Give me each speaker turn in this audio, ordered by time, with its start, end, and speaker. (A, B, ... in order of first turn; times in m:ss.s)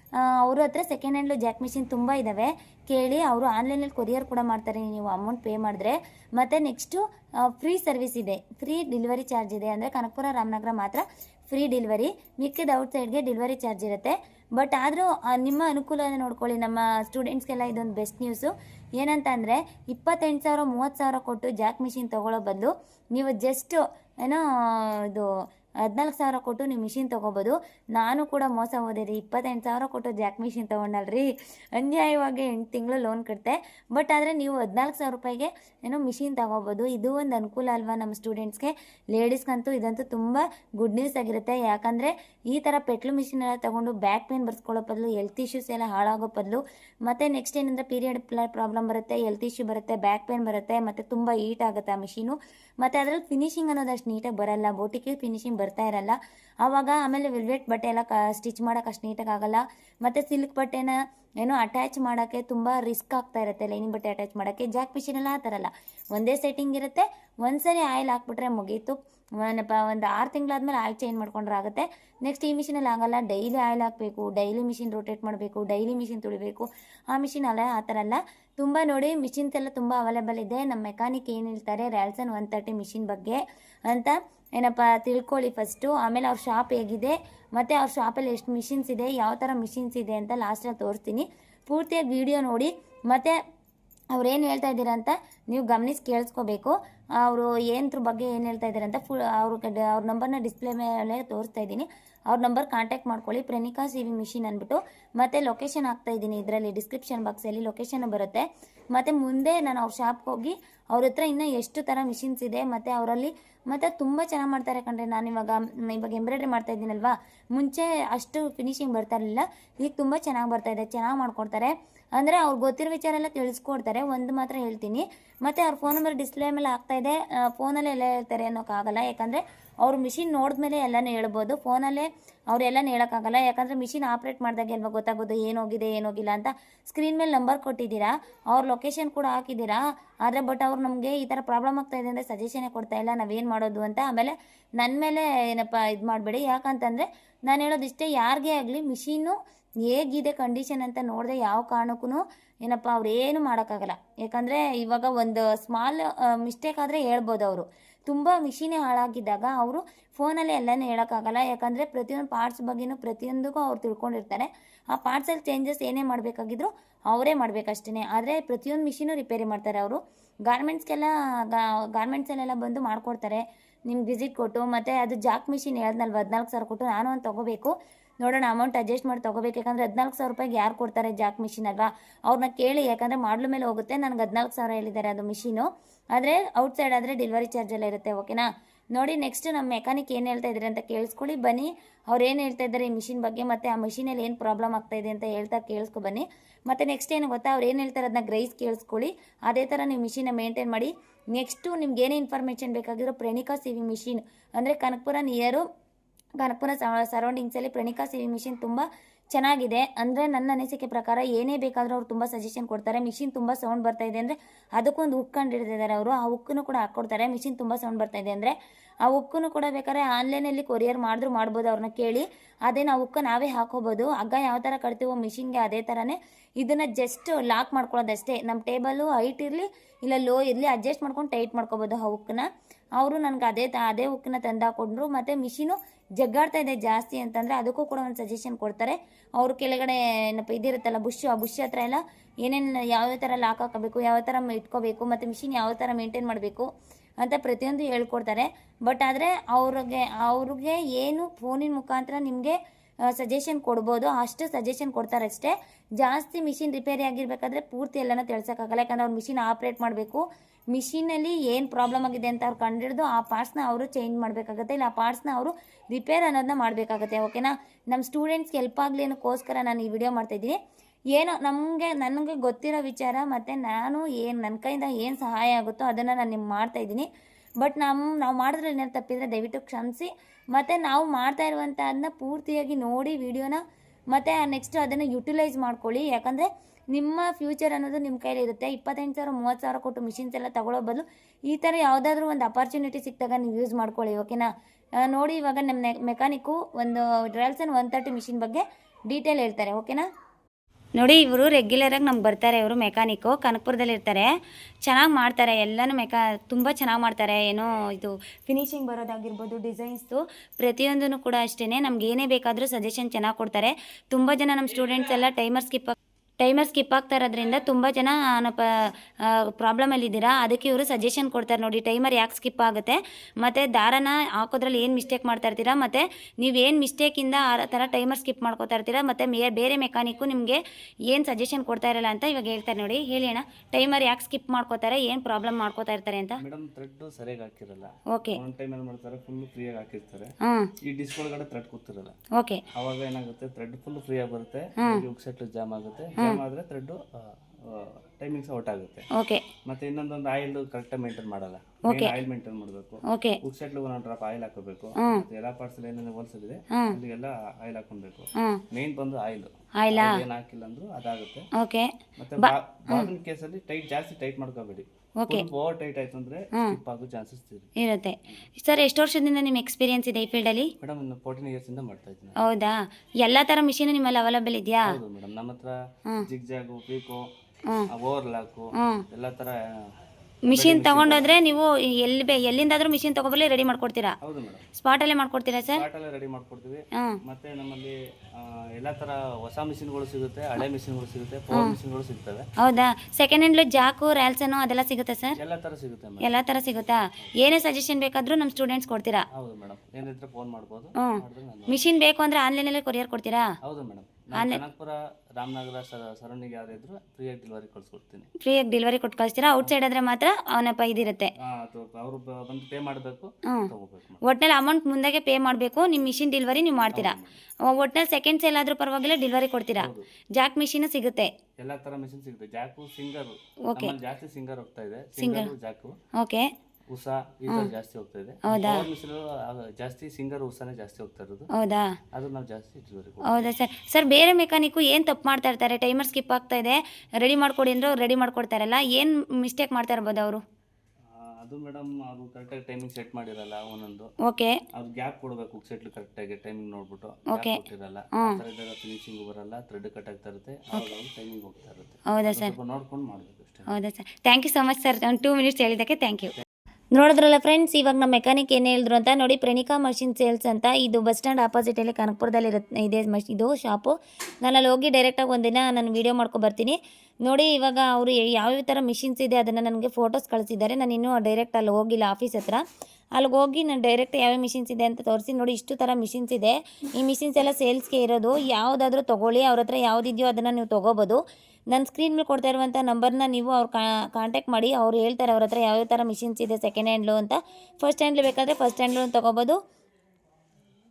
0:00.3-0:25.3 A
0:25.9-1:33.4 A
1:34.1-2:29.4 A
2:29.9-3:25.7 A
3:26.4-3:38.5 A
3:39.1-3:52.4 A
3:53.0-4:06.7 A
4:07.2-4:12.6 A
4:13.1-4:30.6 A
4:31.1-4:37.1 A
4:37.6-4:54.5 A
4:55.0-5:00.0 A
5:01.0-5:04.3 A
5:04.8-5:36.4 A
5:36.4-5:40.3 B
5:38.1-5:38.4 A
5:40.4-5:40.7 A
5:40.8-5:42.1 B
5:42.4-5:42.6 A
5:42.8-5:49.1 B
5:44.8-5:45.0 A
5:49.1-5:49.4 A
5:49.6-6:01.5 B
5:51.8-5:52.2 A
5:53.1-5:53.4 A
5:55.0-5:55.2 A
5:58.4-5:58.6 A
5:59.8-6:00.2 A
6:01.6-6:03.1 A
6:02.2-6:07.7 B
6:05.2-6:05.5 A
6:07.8-6:10.7 A
6:10.8-6:12.4 B
6:12.4-6:14.9 A
6:14.9-6:17.3 B
6:17.9-6:19.9 B
6:18.8-6:19.0 A
6:20.5-6:24.2 A
6:20.5-6:21.3 B
6:24.2-6:24.6 B
6:24.7-6:25.8 A
6:25.8-6:32.5 B
6:32.6-6:35.4 A
6:35.4-6:36.4 B
6:36.2-6:39.2 A
6:39.3-6:41.8 B
6:41.0-6:43.5 A
6:43.6-6:48.3 B
6:44.4-6:44.6 A
6:48.4-6:51.3 A
6:51.4-6:54.2 B
6:54.2-7:01.3 A
6:56.9-6:57.4 B
6:59.8-7:00.1 B
7:01.6-7:06.0 B
7:03.7-7:03.9 A
7:05.2-7:05.5 A
7:06.2-7:06.5 A
7:06.9-7:11.5 B
7:08.5-7:08.9 A
7:11.5-7:12.0 A
7:12.1-7:13.5 B
7:13.3-7:20.4 A
7:21.1-7:24.1 B
7:24.2-7:24.6 A
7:24.7-7:33.7 B
7:27.3-7:27.6 A
7:32.1-7:32.5 A
7:33.7-7:36.3 A
7:37.0-7:52.6 A
7:53.2-8:01.2 A
8:01.7-8:09.6 A